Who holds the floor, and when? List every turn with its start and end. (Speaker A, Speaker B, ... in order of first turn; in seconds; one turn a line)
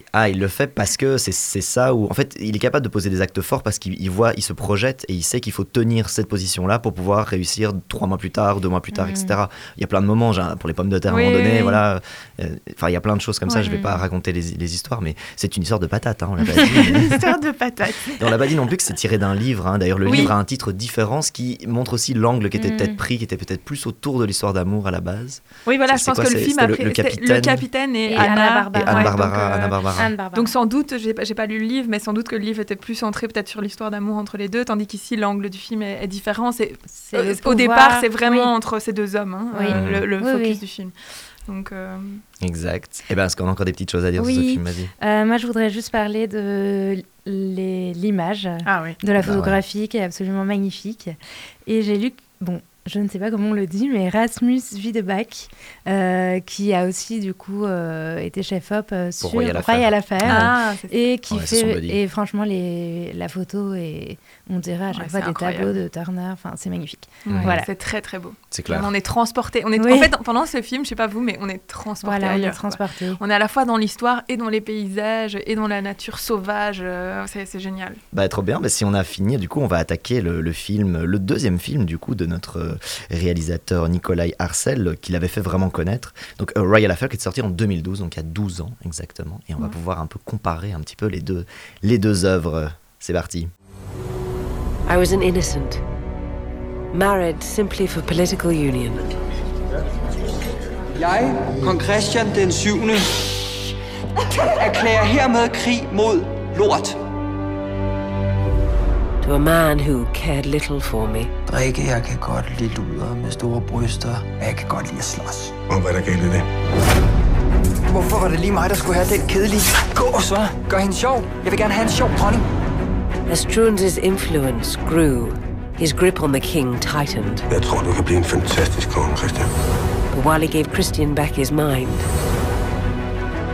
Speaker A: 0.1-17.1
Speaker B: 8.9-9.4
Speaker C: 11.1-11.8
Speaker C: 13.5-13.7
Speaker B: 13.6-14.0
Speaker C: 16.9-18.2
Speaker A: 18.2-30.1
Speaker C: 20.1-20.3
Speaker B: 22.6-23.0
Speaker C: 25.7-29.8
Speaker B: 28.1-29.2
Speaker B: 29.9-30.5
Speaker C: 30.3-40.9
Speaker B: 37.0-38.5
Speaker B: 39.5-40.6
Speaker A: 39.7-40.0
Speaker C: 41.5-42.2
Speaker A: 42.4-44.9
Speaker B: 44.2-67.7
Speaker C: 48.6-49.0
Speaker A: 49.2-49.6
Speaker A: 59.2-60.5
Speaker C: 60.3-61.0
Speaker A: 61.3-62.0
Speaker C: 64.9-65.8
Speaker C: 67.2-78.0
Speaker A: 67.3-67.5
Speaker A: 68.5-68.9
Speaker B: 69.8-70.1
Speaker B: 72.0-73.2
Speaker A: 78.1-93.5
Speaker D: 94.9-95.8
Speaker D: 96.9-99.1
Speaker E: 101.0-103.5
Speaker E: 104.3-107.0
Speaker D: 109.2-111.3
Speaker E: 111.5-115.5
Speaker F: 115.7-116.5
Speaker E: 117.9-122.5
Speaker D: 123.3-127.5
Speaker F: 127.5-129.5
Speaker D: 130.1-132.1